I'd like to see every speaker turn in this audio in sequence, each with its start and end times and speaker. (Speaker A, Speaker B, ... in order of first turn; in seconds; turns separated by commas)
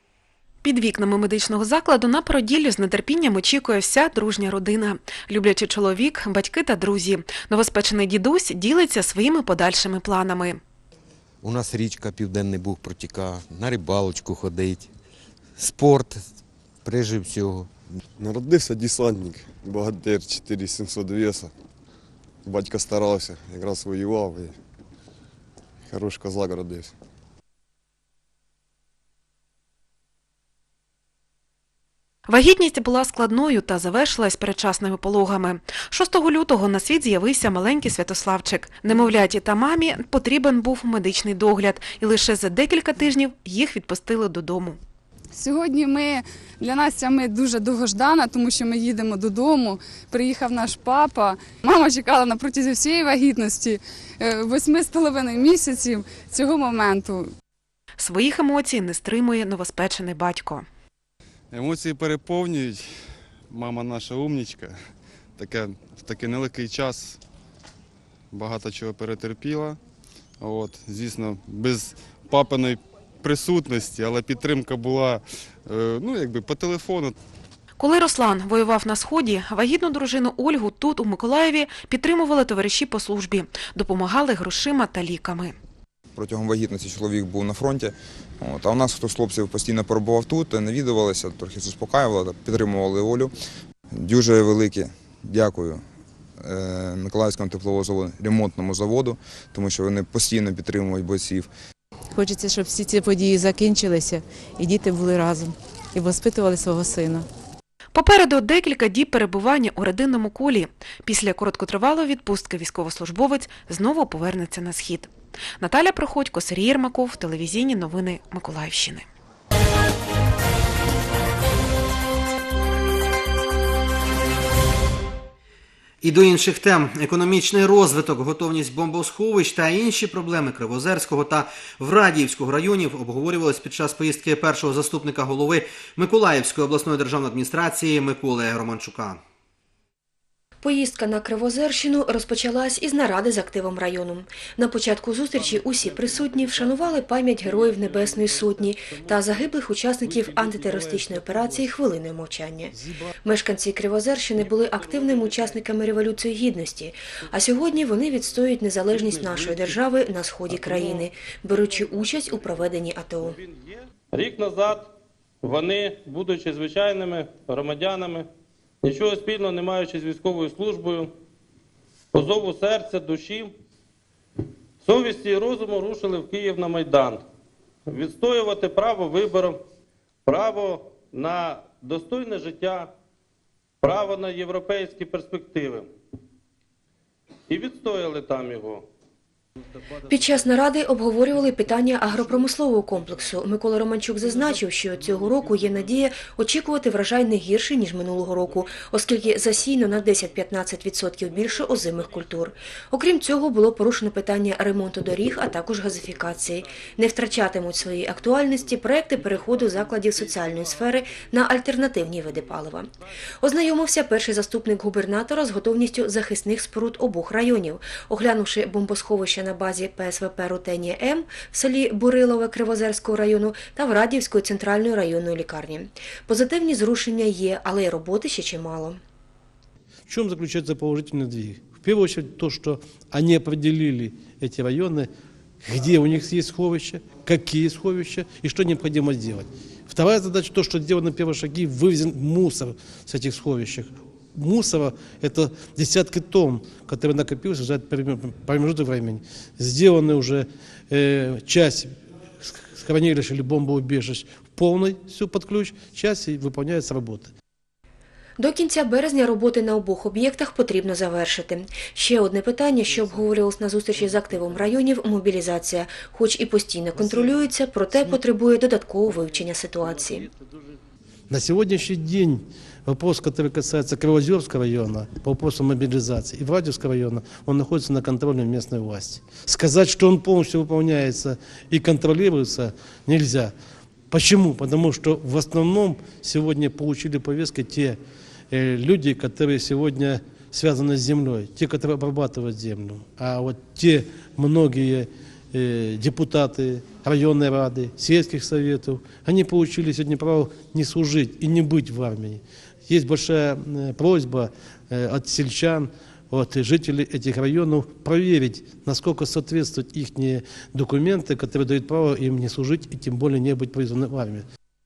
Speaker A: 0.6-10.6, Speaker B: 11.4-14.9, Speaker B: 15.6-16.2, Speaker B: 16.8-17.7, Speaker C: 18.2-21.5, Speaker C: 22.4-24.6, Speaker C: 25.9-26.9, Speaker A: 32.3-44.8, Speaker D: 45.3-57.3, Speaker A: 58.0-60.7, Speaker C: 61.5-62.9, Speaker C: 63.5-64.7, Speaker C: 65.4-67.2, Speaker C: 68.3-69.8, Speaker C: 70.4-77.2, Speaker A: 77.8-85.5, Speaker E: 86.1-93.3, Speaker E: 93.9-95.8, Speaker E: 96.4-101.5, Speaker F: 102.1-107.2, Speaker A: 107.9-119.0, Speaker G: 126.0-139.2, Speaker H: 140.6-163.4, Speaker I: 164.1-164.9, Speaker I: 165.4-168.3, Speaker I: 168.8-171.1, Speaker I: 172.1-173.5, Speaker I: 174.8-177.2, Speaker I: 177.9-179.6, Speaker I: 180.2-182.9, Speaker I: 183.8-185.9, Speaker I: 187.5-188.8, Speaker H: 190.1-229.0, Speaker J: 230.1-235.1, Speaker J: 235.6-257.3, Speaker H: 258.4-270.3, Speaker J: 271.3-283.5, Speaker J: 284.1-288.0, Speaker J: 288.5-314.4